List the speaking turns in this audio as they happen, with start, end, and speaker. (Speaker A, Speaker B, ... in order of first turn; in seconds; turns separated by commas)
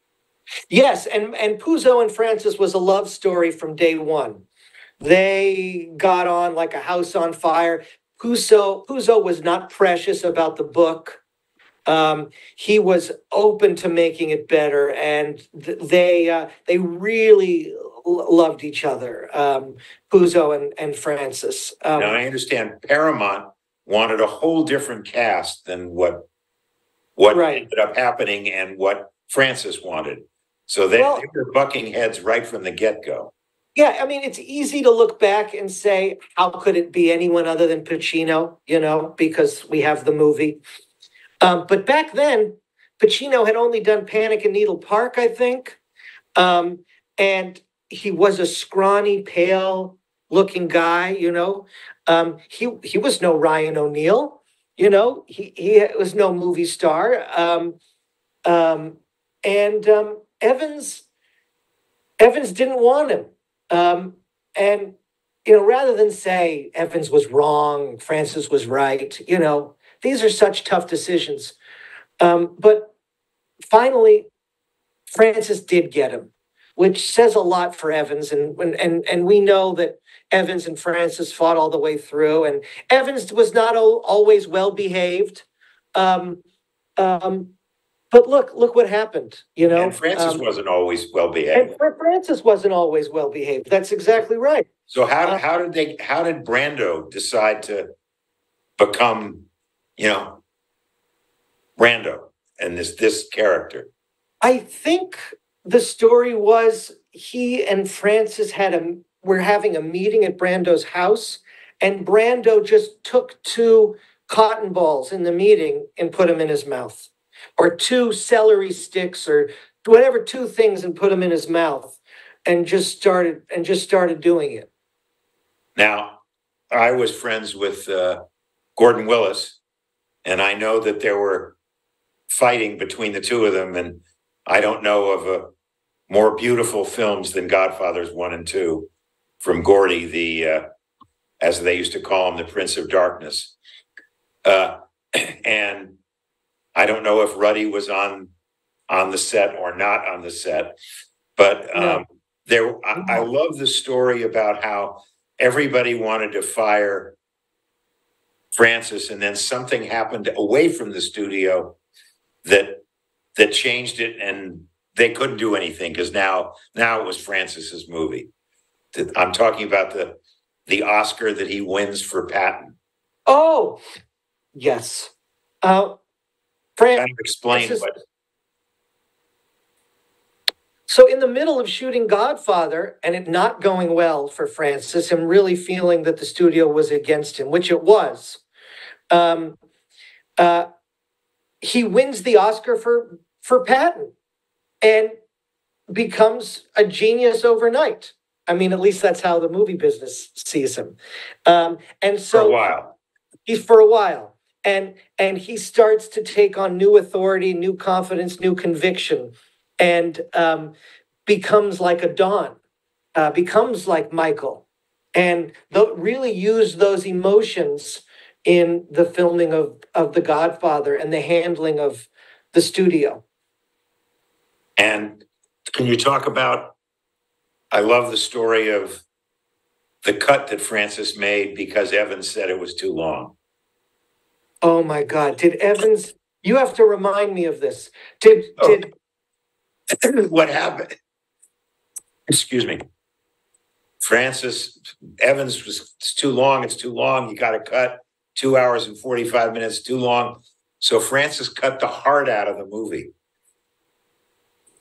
Speaker A: 0.7-4.4, Speaker A: 5.0-11.2, Speaker A: 11.8-22.1, Speaker B: 21.9-26.2, Speaker B: 27.2-33.3, Speaker A: 27.3-27.6, Speaker A: 30.9-31.2, Speaker A: 33.7-40.6, Speaker A: 41.4-45.8, Speaker A: 46.4-57.8, Speaker A: 58.4-61.0, Speaker A: 62.2-71.5, Speaker A: 72.2-72.9, Speaker A: 73.7-74.3, Speaker A: 75.1-86.4, Speaker A: 87.0-87.5, Speaker A: 88.1-90.4, Speaker B: 89.7-91.8, Speaker A: 91.5-94.7, Speaker B: 94.9-97.9, Speaker B: 98.8-99.5, Speaker B: 100.0-100.4, Speaker B: 101.8-103.9, Speaker A: 104.4-124.7, Speaker B: 125.8-128.2, Speaker B: 128.8-129.6, Speaker B: 130.2-131.5, Speaker B: 132.3-135.5, Speaker B: 136.1-138.9, Speaker B: 139.4-140.6, Speaker B: 141.4-143.6, Speaker B: 144.4-145.9, Speaker B: 146.7-148.3, Speaker B: 148.9-150.8, Speaker B: 151.4-157.1, Speaker A: 151.7-152.0, Speaker A: 152.9-153.2, Speaker B: 158.5-161.8, Speaker B: 162.4-162.8, Speaker B: 163.3-168.3, Speaker B: 168.9-172.7, Speaker A: 173.3-173.8, Speaker A: 174.5-175.1, Speaker A: 175.6-176.0, Speaker A: 176.8-177.9, Speaker B: 176.9-178.0, Speaker A: 180.9-188.4, Speaker A: 189.1-189.6, Speaker A: 190.4-190.7, Speaker A: 191.6-194.1, Speaker A: 194.8-195.2, Speaker A: 195.9-202.7, Speaker B: 202.3-202.9, Speaker A: 203.4-210.7, Speaker A: 211.2-212.6, Speaker A: 213.2-214.6, Speaker A: 215.2-223.2, Speaker B: 224.8-226.7, Speaker B: 227.7-229.0, Speaker B: 230.0-233.3, Speaker A: 234.6-238.9, Speaker B: 239.9-240.9, Speaker B: 242.3-242.8, Speaker B: 244.0-253.1